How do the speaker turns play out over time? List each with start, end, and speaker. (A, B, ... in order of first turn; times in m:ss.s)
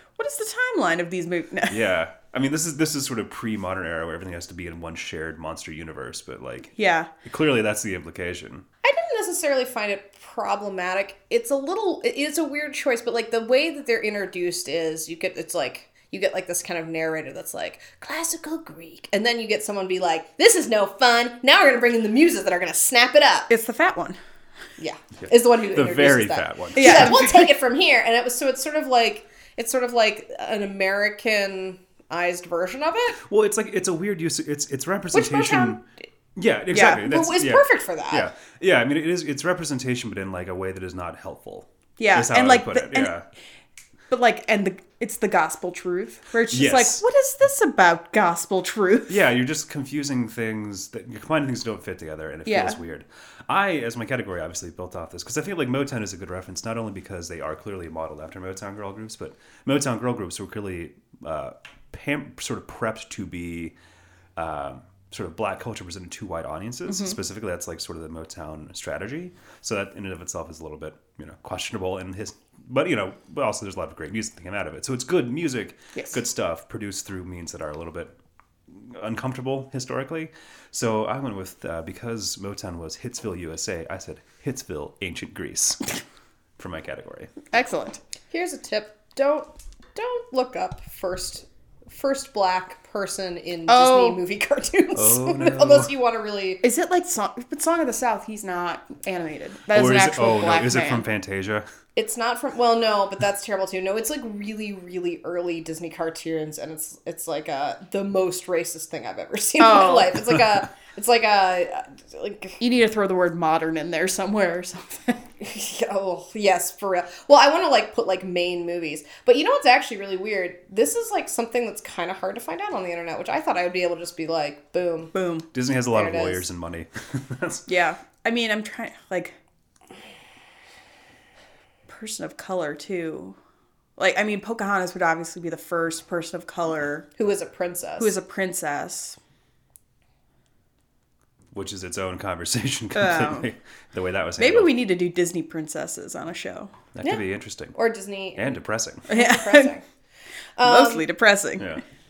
0:00.2-0:01.8 A
0:01.7-0:08.6 B
0:06.8-0:07.1 A
0:08.8-0:23.5 C
0:23.5-0:24.2 A
0:24.8-0:33.2 C
0:25.2-0:27.2 B
0:26.8-0:27.5 A
0:33.2-0:35.8 B
0:35.1-0:35.8 C
0:36.4-0:43.2 B
0:36.7-0:37.0 A
0:36.8-0:38.3 C
0:42.0-0:43.2 A
0:44.1-0:49.2 A
0:46.5-0:47.0 B
0:49.1-1:03.7 B
0:52.4-0:52.8 A
1:04.4-1:18.1 B
1:18.7-1:25.9 B
1:26.6-1:27.3 B
1:27.5-1:28.0 A
1:28.3-1:36.6 C
1:33.7-1:34.2 A
1:34.9-1:35.9 B
1:36.6-1:41.0 A
1:39.7-1:41.6 B
1:42.0-1:52.6 C
1:49.6-1:50.1 A
1:52.6-1:55.2 A
1:55.4-2:05.1 C
2:05.1-2:05.4 A
2:05.5-2:07.6 B
2:05.9-2:06.4 C
2:07.7-2:09.4 A
2:11.9-2:13.4 A
2:14.0-2:17.1 A
2:17.2-2:18.1 C
2:18.0-2:19.2 A
2:21.5-2:24.7 B
2:22.9-2:23.5 A
2:24.4-2:26.7 A
2:26.9-2:27.7 B
2:27.0-2:29.8 C
2:28.4-2:29.1 B
2:29.1-2:29.7 A
2:30.6-2:31.1 C
2:30.6-2:31.8 A